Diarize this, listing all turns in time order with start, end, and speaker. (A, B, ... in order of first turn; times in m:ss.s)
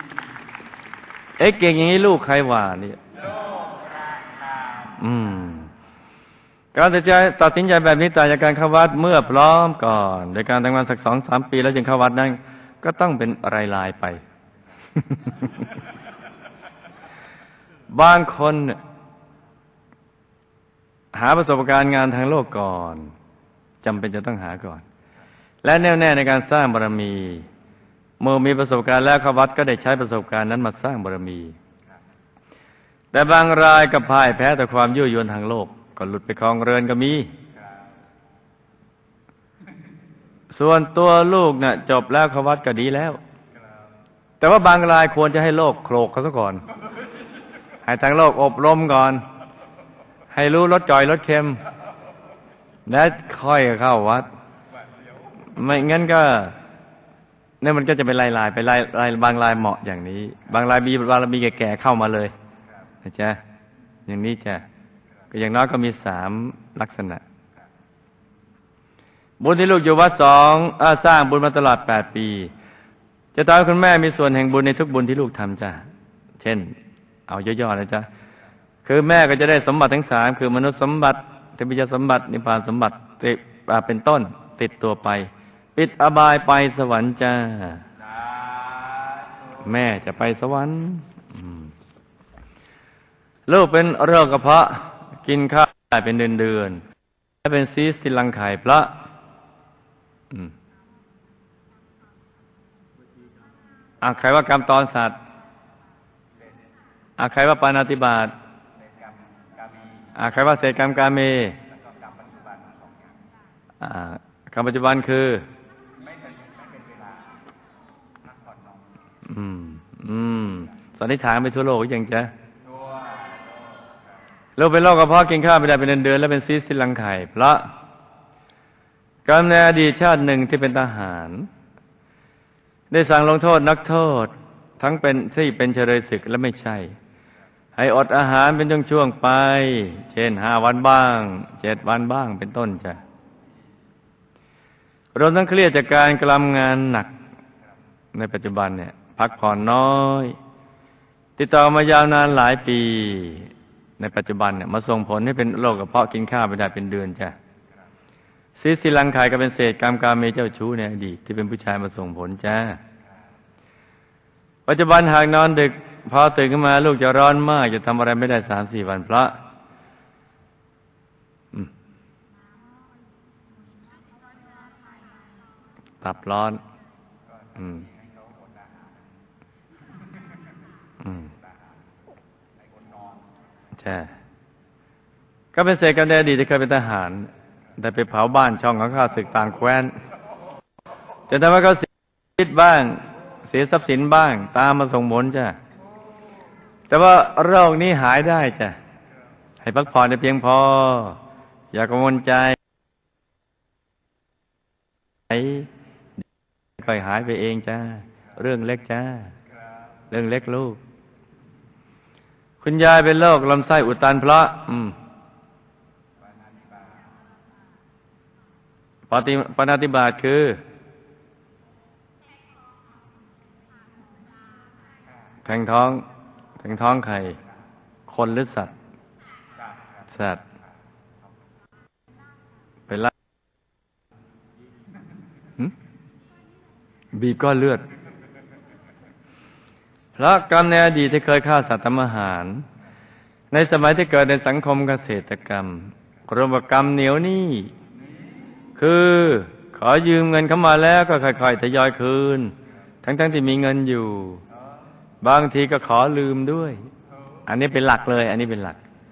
0:01.4-0:03.0 A
0:03.3-0:04.9 B
0:05.0-0:05.7 A
0:06.7-0:14.2 A
0:15.2-0:15.6 A
0:17.9-0:18.8 A
0:21.1-0:23.1 A
0:23.8-0:24.8 A
0:25.6-0:27.5 A
0:28.2-0:31.6 A
0:33.1-0:37.3 A
0:40.5-0:43.2 A
0:44.4-0:46.6 A
0:47.8-0:49.2 A
0:50.3-0:51.6 A
0:52.8-0:54.2 A
0:55.5-0:56.6 A
0:57.6-1:02.3 A
1:03.0-1:03.4 A
1:04.1-1:04.6 A
1:05.3-1:07.2 A
1:09.4-1:12.5 A
1:13.3-1:15.8 A
1:16.4-1:16.7 A
1:17.3-1:18.1 A
1:18.8-1:27.8 A
1:28.1-1:29.6 B
1:29.6-1:31.7 A
1:33.5-1:36.8 A
1:37.4-1:38.9 A
1:44.0-1:45.2 A
1:47.2-1:48.3 A
1:48.8-1:50.1 B
1:50.1-1:51.6 A
1:51.7-1:53.1 B
1:53.8-1:55.4 A
1:55.9-1:57.4 B
1:58.2-1:58.8 B
1:59.2-2:02.3 A
2:02.6-2:03.8 B
2:04.6-2:07.7 A
2:09.2-2:11.5 A
2:12.9-2:17.0 A
2:17.8-2:23.0 A
2:25.1-2:27.1 A
2:28.1-2:30.4 A
2:31.4-2:37.3 A
2:38.6-2:42.8 A
2:44.7-2:49.4 A
2:56.0-2:56.6 A
2:57.4-2:58.9 B
2:57.6-2:57.8 A
3:01.0-3:01.3 A
3:02.6-3:03.2 B
3:03.8-3:04.1 A
3:05.5-3:09.9 A
3:11.3-3:15.6 A
3:16.9-3:18.8 A
3:19.6-3:21.2 A
3:21.7-3:22.6 A
3:25.3-3:25.7 A
3:26.8-3:29.3 A
3:30.1-3:30.8 A
3:32.6-3:35.0 A
3:36.3-3:37.1 B
3:39.1-3:40.6 A
3:45.4-3:46.0 A
3:46.6-3:47.4 A
3:48.1-3:48.7 A
3:50.1-3:50.4 A
3:57.1-3:57.8 A
4:00.2-4:02.6 A
4:03.5-4:07.7 A
4:08.8-4:14.4 A
4:15.2-4:16.9 A
4:17.4-4:18.8 A